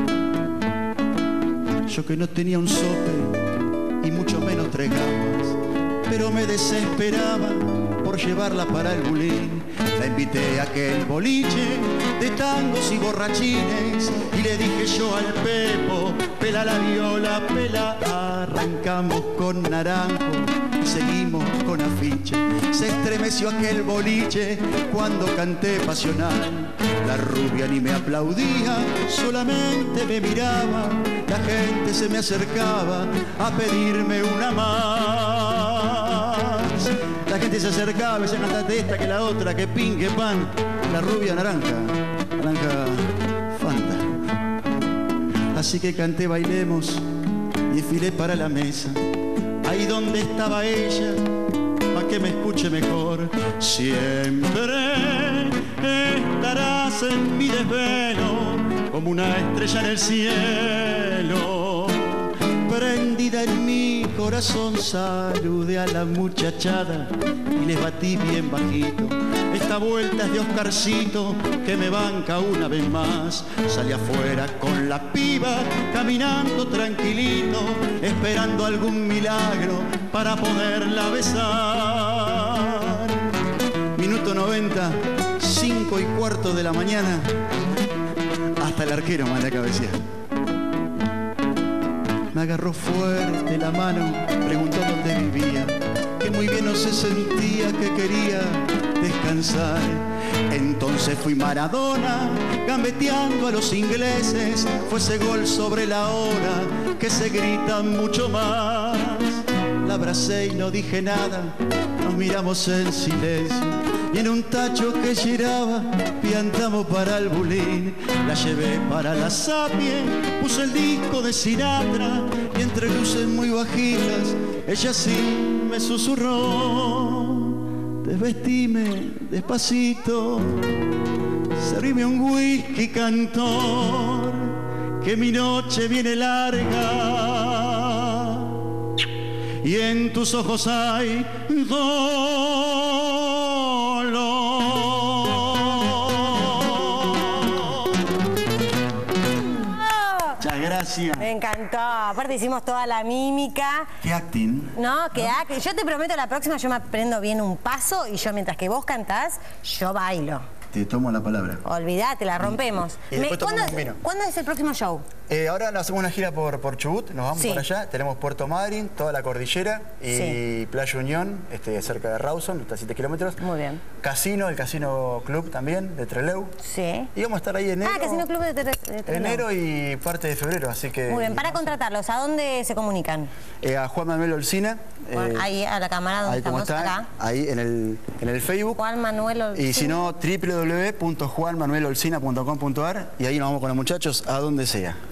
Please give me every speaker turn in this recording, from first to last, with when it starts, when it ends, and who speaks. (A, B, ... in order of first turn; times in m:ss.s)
0:01.9-0:03.4 A
0:04.0-0:44.2 A
0:45.5-0:47.0 A
0:47.7-0:49.0 A
0:49.6-0:51.3 A
0:51.9-1:23.4 A
1:23.9-1:27.4 A
1:28.6-1:30.0 A
1:32.3-2:11.0 A
2:11.5-2:18.6 A
2:19.6-2:28.1 A
2:29.5-2:30.4 B
2:30.4-2:31.3 A
2:31.1-2:33.9 B
2:34.0-2:35.4 A
2:34.8-2:40.4 B
2:40.7-2:41.6 A
2:41.6-2:45.0 B
2:42.4-2:44.0 A
2:45.3-2:53.4 A
2:47.4-2:47.6 B
2:50.1-2:50.4 B
2:53.4-2:53.8 B
2:54.0-2:56.5 A
2:56.6-2:57.1 B
2:57.1-2:58.3 A
2:57.8-2:59.4 B
2:59.1-3:01.8 A
3:01.1-3:03.3 B
3:03.6-3:05.5 A
3:05.1-3:07.1 B
3:06.2-3:08.8 A
3:08.8-3:10.1 B
3:09.5-3:15.0 A